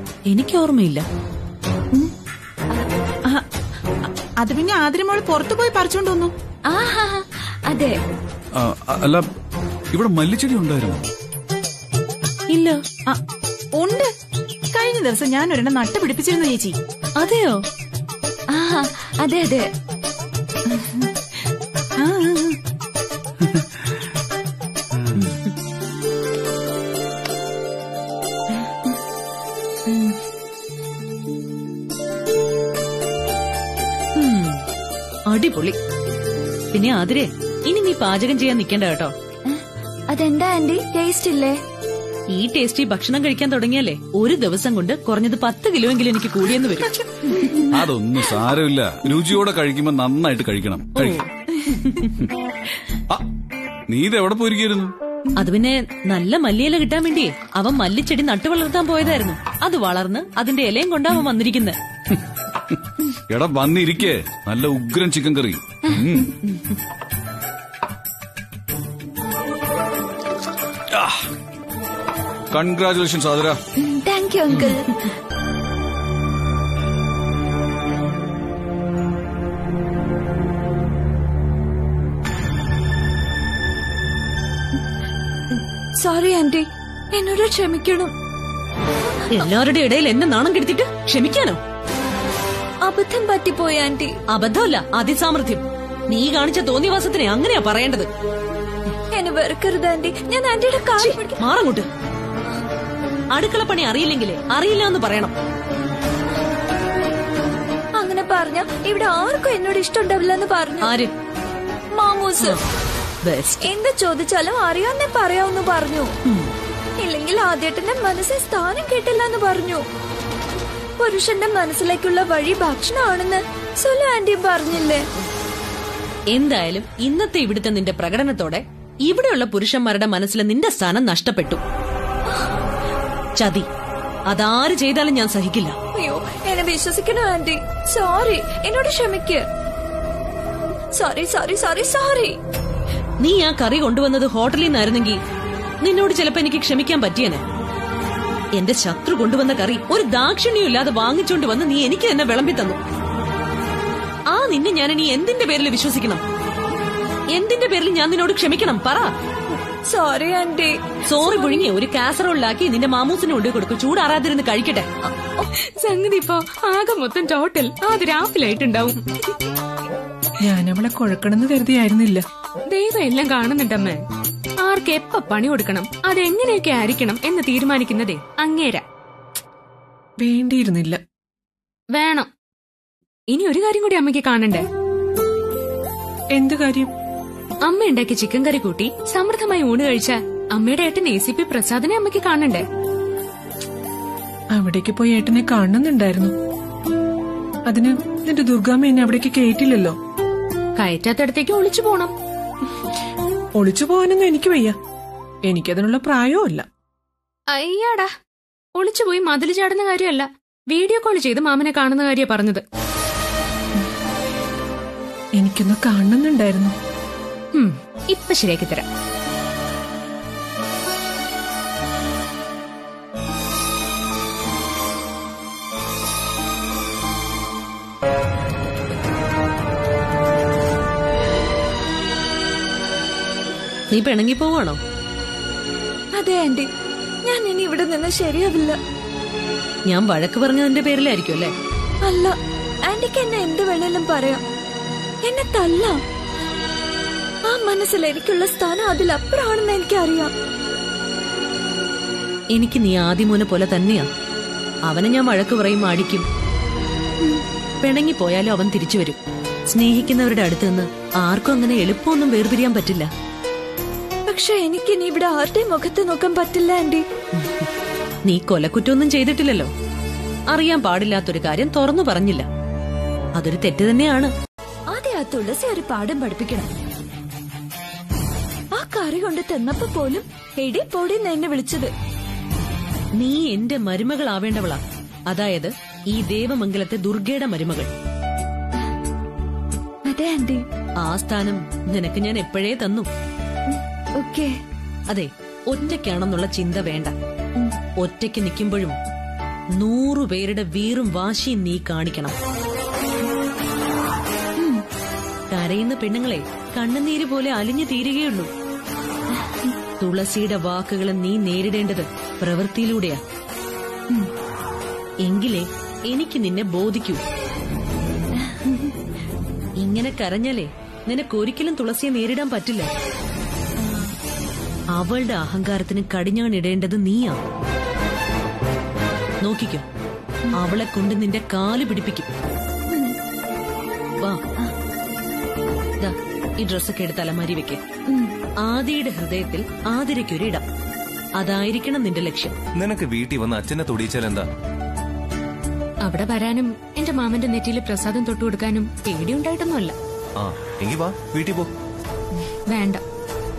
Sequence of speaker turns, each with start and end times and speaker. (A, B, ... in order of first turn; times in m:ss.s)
0:00.3-0:01.0 A
0:04.4-0:06.3 B
0:06.7-0:08.0 C
0:08.6-0:09.2 D
0:09.9-0:11.0 D
0:12.5-0:12.8 A
0:13.7-0:14.1 B
0:14.7-0:16.8 B
0:17.2-0:17.6 A
0:18.5-0:19.7 C
0:20.7-0:21.1 C
0:22.0-0:22.6 C
0:28.5-0:28.9 C
0:29.9-0:30.2 C
0:34.2-0:34.6 A
0:35.3-0:35.8 A
0:36.7-0:39.1 A
0:39.5-0:41.6 C
0:42.3-0:47.0 A
0:47.3-0:47.7 C
0:47.7-0:51.2 D
0:51.8-0:52.1 A
0:53.9-0:54.9 D
0:55.4-1:01.8 A
1:02.1-1:06.3 D
1:10.9-1:11.3 D
1:12.5-1:13.6 D
1:13.8-1:15.1 C
1:25.5-1:28.1 C
1:29.3-1:31.6 A
1:32.8-1:34.1 C
1:34.3-1:38.1 A
1:39.1-1:41.4 C
1:41.0-1:41.9 A
1:43.3-1:45.3 A
1:48.0-1:50.9 C
1:50.8-1:51.1 A
1:52.0-1:52.6 C
1:53.2-1:53.7 A
1:53.6-1:56.1 C
1:57.0-1:59.8 C
2:01.0-2:05.0 C
2:06.3-2:11.6 A
2:13.4-2:13.7 A
2:14.3-2:15.8 A
2:16.0-2:19.4 C
2:21.0-2:22.4 C
2:23.2-2:25.2 A
2:25.8-2:27.4 A
2:28.5-2:32.8 A
2:34.3-2:36.2 A
2:37.3-2:39.1 A
2:39.9-2:41.0 C
2:41.1-2:44.9 A
2:45.8-2:49.0 E
2:50.4-2:52.2 F
2:52.7-2:54.0 E
2:54.6-2:58.8 E
3:00.2-3:01.0 F
3:01.9-3:02.3 E
3:03.3-3:04.6 E
3:06.3-3:06.9 F
3:07.6-3:12.6 E
3:14.5-3:16.3 F
3:17.7-3:20.0 F
3:20.8-3:22.1 E
3:23.6-3:24.8 F
3:25.5-3:26.6 F
3:27.5-3:28.1 E
3:28.8-3:32.6 E
3:35.4-3:36.7 F
3:37.5-3:38.8 E
3:53.9-3:54.8 A
3:56.2-3:56.7 C
3:57.2-3:58.8 C
3:59.9-4:01.5 A
4:02.0-4:04.4 C
4:05.2-4:06.0 C
4:07.5-4:10.3 C
4:12.5-4:14.1 A
4:14.9-4:16.2 A
4:17.8-4:19.2 A
4:19.7-4:23.1 A
4:24.3-4:27.0 C
4:28.3-4:29.7 A
4:30.5-4:32.5 A
4:33.4-4:34.3 A
4:34.9-4:36.7 C
4:38.7-4:41.9 C
4:43.2-4:47.9 A
4:50.1-4:50.6 C
4:51.0-4:53.1 A
4:53.7-4:54.6 C
4:55.1-4:57.1 A
4:58.0-4:59.0 A
4:59.8-5:02.3 A
5:04.6-5:04.8 C
5:05.5-5:08.5 A
5:10.0-5:13.2 A
5:15.2-5:17.2 A
5:18.4-5:18.9 C
5:19.8-5:22.9 A
5:23.8-5:24.1 C
5:25.0-5:27.4 A
5:29.4-5:29.8 A
5:30.5-5:32.3 A
5:32.9-5:33.2 C
5:36.0-5:37.8 A
5:38.6-5:40.6 A
5:41.4-5:42.5 A
5:42.8-5:44.5 G
5:46.0-5:49.9 E
5:50.4-5:51.7 G
5:52.7-5:53.0 E